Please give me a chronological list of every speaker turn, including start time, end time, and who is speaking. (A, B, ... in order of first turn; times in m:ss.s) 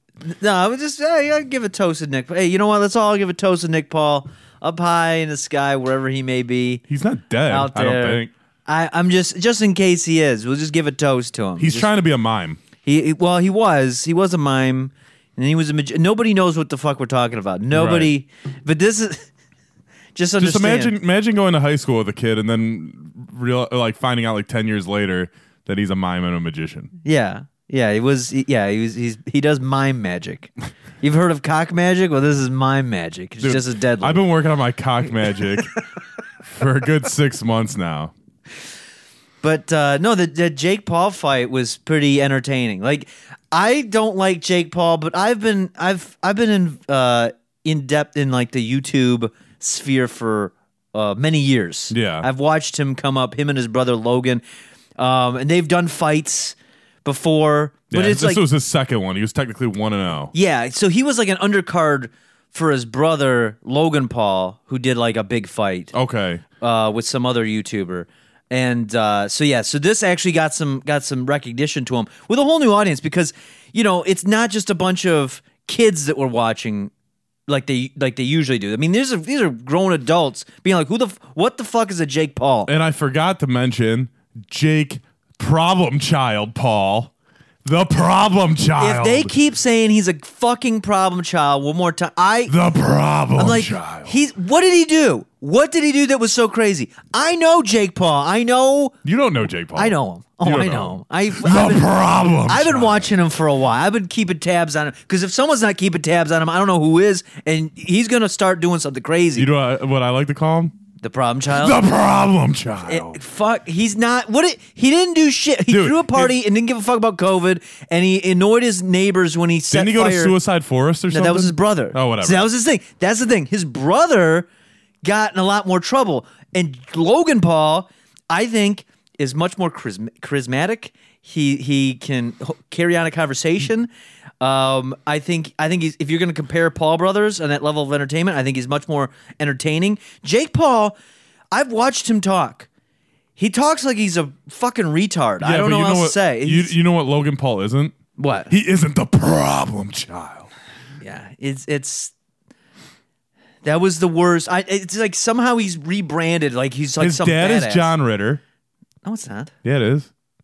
0:00.2-0:06.8 A
0:06.9-0:08.3 B
0:07.5-0:11.9 A
0:11.6-0:12.6 B
0:12.8-0:19.3 A
0:17.7-0:18.1 B
0:20.1-0:20.9 A
0:20.4-0:26.9 B
0:27.0-0:34.2 A
0:33.4-0:35.7 B
0:36.4-0:38.1 B
0:39.4-0:54.4 A
0:51.9-0:52.3 B
0:55.0-0:58.4 A
0:57.9-1:00.3 B
1:00.3-1:05.9 A
1:05.9-1:06.4 B
1:06.6-1:16.9 A
1:17.5-1:22.7 A
1:22.7-1:27.1 B
1:27.6-1:29.3 B
1:28.8-1:32.5 A
1:32.5-1:34.2 B
1:33.4-1:38.9 A
1:39.0-1:43.1 B
1:39.7-1:49.5 A
1:49.3-1:50.8 B
1:51.0-1:51.8 A
1:51.5-1:53.2 B
1:52.8-2:00.3 A
1:55.7-1:56.3 B
1:59.7-2:02.5 B
2:01.1-2:04.5 A
2:05.0-2:13.9 A
2:14.4-2:20.9 A
2:21.5-2:22.7 A
2:23.4-2:26.7 A
2:25.4-2:28.0 B
2:28.2-2:28.5 A
2:28.5-2:30.5 B
2:31.0-2:32.1 A
2:33.6-2:37.9 A
2:37.0-2:38.4 B
2:39.0-2:39.5 A
2:39.6-2:40.1 B